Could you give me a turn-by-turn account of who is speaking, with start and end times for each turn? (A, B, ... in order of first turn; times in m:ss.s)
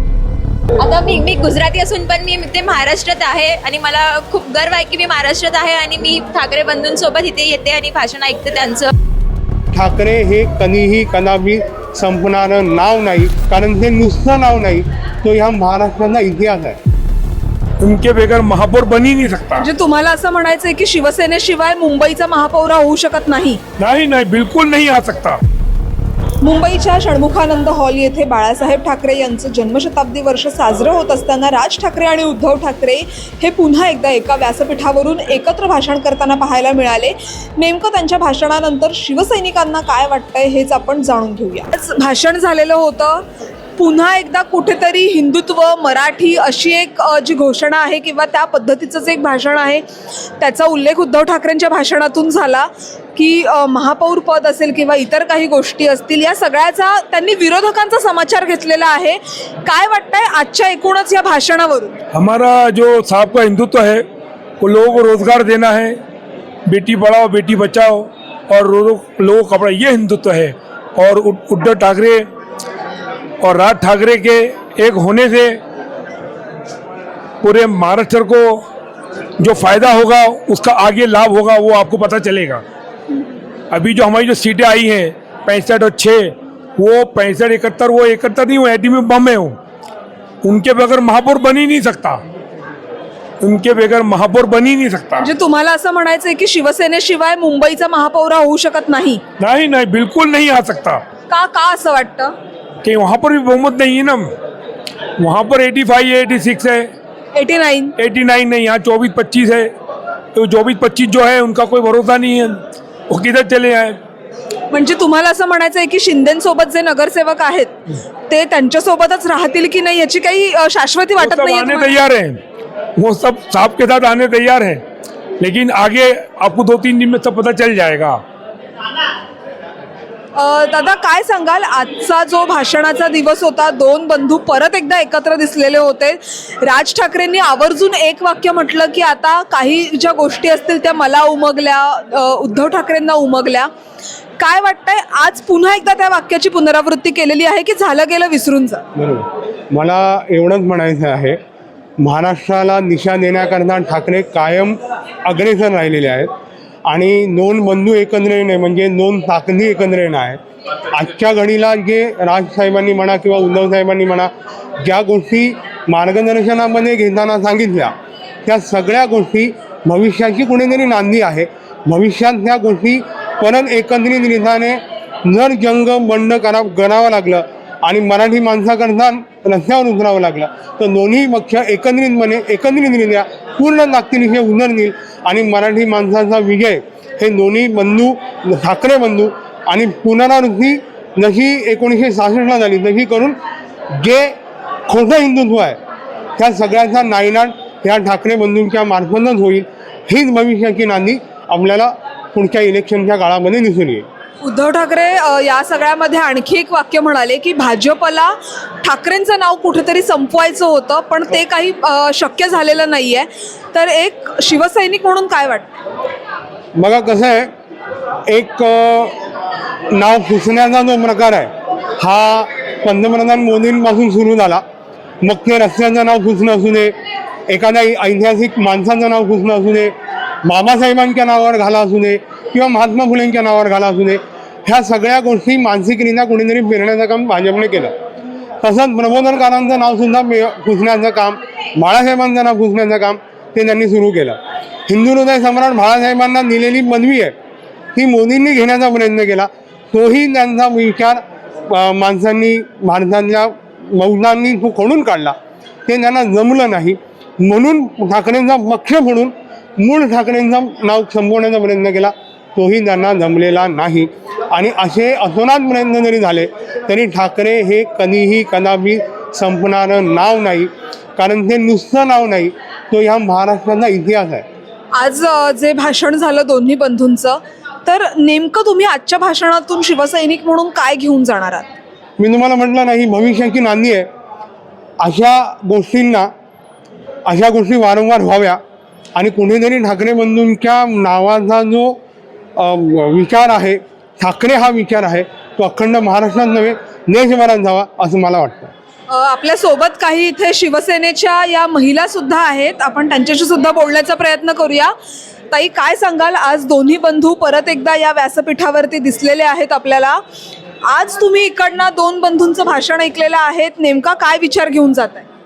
0:00.8-0:08.9 A
0:09.7-0:16.8 B
0:17.8-0:19.7 C
0:19.6-0:23.6 D
0:23.8-0:25.4 C
0:26.4-0:43.2 D
0:43.8-0:49.8 D
0:50.4-1:02.0 D
1:02.1-1:04.0 C
1:04.6-1:06.0 C
1:06.7-1:12.3 C
1:13.4-1:15.6 C
1:17.4-1:18.6 C
1:19.4-1:22.6 C
1:23.7-1:29.6 C
1:30.4-1:32.2 C
1:33.4-1:35.3 C
1:35.2-1:39.2 D
1:39.4-1:41.0 C
1:41.3-1:42.3 D
1:42.8-1:44.3 C
1:45.2-1:46.9 C
1:47.4-1:47.9 D
1:48.0-1:49.7 C
1:50.3-1:54.0 C
1:54.7-1:57.7 D
1:58.3-2:02.0 D
2:01.2-2:02.4 C
2:03.0-2:04.8 C
2:05.4-2:08.2 C
2:10.4-2:23.7 D
2:24.4-2:28.8 D
2:29.0-2:31.4 B
2:32.0-2:36.3 B
2:36.9-2:40.4 B
2:40.9-2:47.9 B
2:48.4-3:13.4 B
3:14.0-3:14.4 B
3:14.9-3:15.8 B
3:16.4-3:24.0 B
3:24.4-3:35.7 D
3:36.8-3:37.5 B
3:38.3-3:39.2 B
3:39.9-3:44.6 B
3:45.2-3:47.0 B
3:47.5-3:57.9 B
3:58.6-4:07.3 B
4:08.0-4:34.5 B
4:34.9-4:41.7 D
4:42.2-4:44.1 B
4:45.0-4:46.3 B
4:47.3-4:48.6 B
4:49.2-4:52.0 B
4:52.6-4:58.7 B
4:59.1-5:04.9 D
5:05.5-5:10.2 D
5:10.9-5:15.3 D